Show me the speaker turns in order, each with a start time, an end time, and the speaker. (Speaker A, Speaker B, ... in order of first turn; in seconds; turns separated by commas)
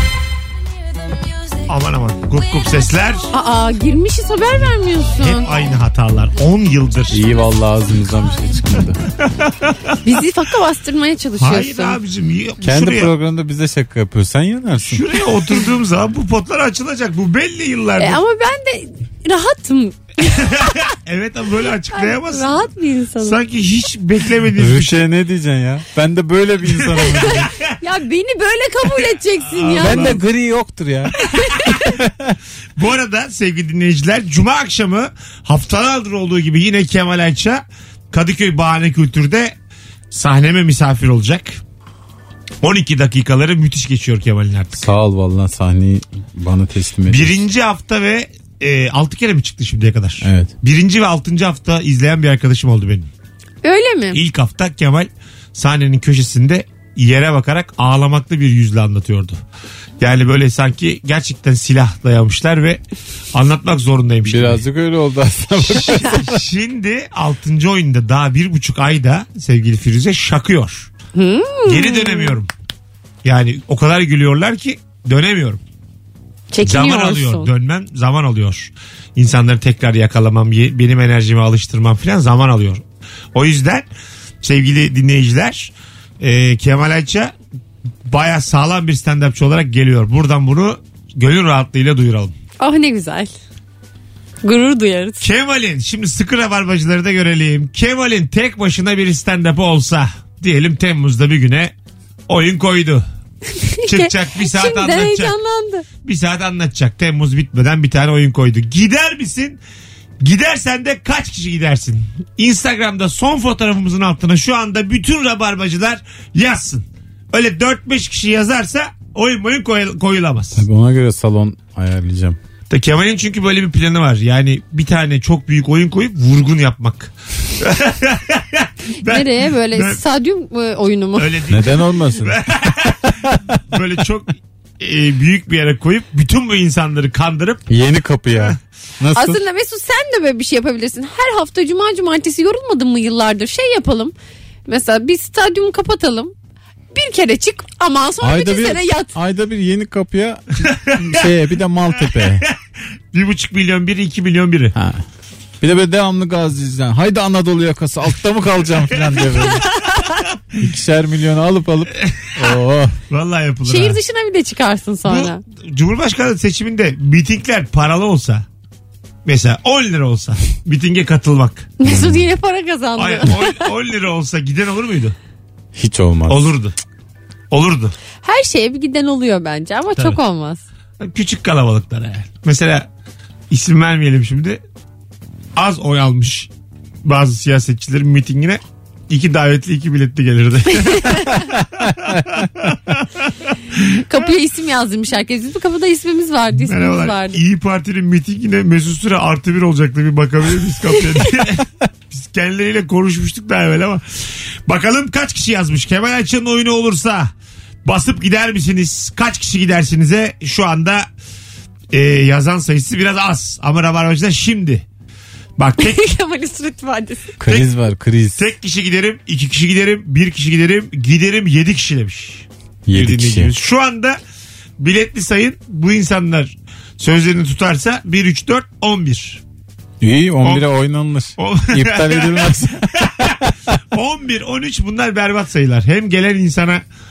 Speaker A: 1.7-3.3, Speaker B: 3.3-5.5, Speaker A: 5.2-7.3, Speaker C: 7.1-9.0, Speaker A: 9.2-10.0, Speaker B: 10.0-12.0, Speaker A: 11.4-13.1, Speaker C: 12.6-15.1, Speaker A: 14.9-18.2, Speaker B: 18.0-20.8, Speaker A: 20.4-22.7, Speaker B: 21.9-23.4, Speaker A: 23.2-25.0, Speaker C: 24.5-27.5, Speaker A: 26.8-27.7, Speaker B: 27.8-30.2, Speaker A: 29.1-30.2, Speaker C: 29.8-31.1, Speaker A: 31.2-31.7, Speaker B: 31.3-31.9, Speaker C: 31.7-32.4, Speaker A: 32.8-39.5, Speaker A: 40.1-41.6, Speaker A: 42.6-44.9, Speaker C: 44.8-47.4, Speaker A: 47.1-53.1, Speaker C: 50.2-50.5, Speaker B: 53.6-54.2, Speaker A: 54.1-59.4, Speaker A: 60.0-62.8, Speaker A: 63.3-64.6, Speaker C: 64.2-66.4, Speaker A: 65.7-70.9, Speaker B: 71.2-72.4, Speaker A: 71.7-72.5, Speaker A: 73.2-75.6, Speaker B: 76.5-77.5, Speaker A: 76.6-82.8, Speaker A: 83.3-83.9, Speaker A: 84.4-87.3, Speaker A: 88.0-92.3, Speaker B: 92.6-93.3, Speaker B: 94.4-95.2, Speaker A: 95.2-101.7, Speaker A: 102.3-103.0, Speaker B: 103.6-105.8, Speaker A: 103.8-105.3, Speaker A: 106.0-109.6, Speaker A: 110.2-120.6, Speaker C: 120.5-122.4, Speaker A: 122.7-130.0, Speaker B: 129.0-131.3, Speaker A: 131.2-133.1, Speaker C: 131.5-132.4, Speaker A: 133.7-137.7, Speaker C: 137.7-139.4, Speaker B: 139.1-144.1, Speaker B: 144.7-146.3, Speaker B: 146.9-149.1, Speaker C: 148.2-152.4, Speaker A: 150.6-151.3, Speaker A: 152.1-152.6, Speaker A: 153.1-154.7, Speaker C: 154.7-155.0, Speaker C: 155.6-159.7, Speaker B: 159.5-160.0, Speaker C: 160.6-163.0, Speaker A: 162.0-162.4, Speaker A: 163.1-164.0, Speaker B: 163.6-165.4, Speaker A: 165.0-168.4, Speaker A: 169.2-171.7, Speaker B: 171.8-173.6, Speaker C: 171.8-172.2, Speaker A: 173.0-175.2, Speaker C: 175.8-176.6, Speaker A: 176.3-176.8, Speaker A: 177.5-177.9, Speaker B: 178.2-180.6, Speaker A: 181.0-182.9, Speaker A: 183.5-184.6, Speaker A: 185.6-186.5, Speaker A: 187.0-194.1, Speaker B: 190.8-191.4, Speaker B: 194.1-197.4, Speaker A: 196.6-204.0, Speaker A: 204.7-207.3, Speaker A: 207.8-211.1, Speaker A: 211.9-214.8, Speaker A: 215.6-216.0, Speaker B: 215.8-217.4, Speaker C: 217.4-218.5, Speaker A: 218.3-224.2, Speaker C: 222.8-223.5, Speaker A: 224.8-229.4, Speaker C: 230.0-233.5, Speaker A: 230.4-230.7, Speaker A: 231.4-236.8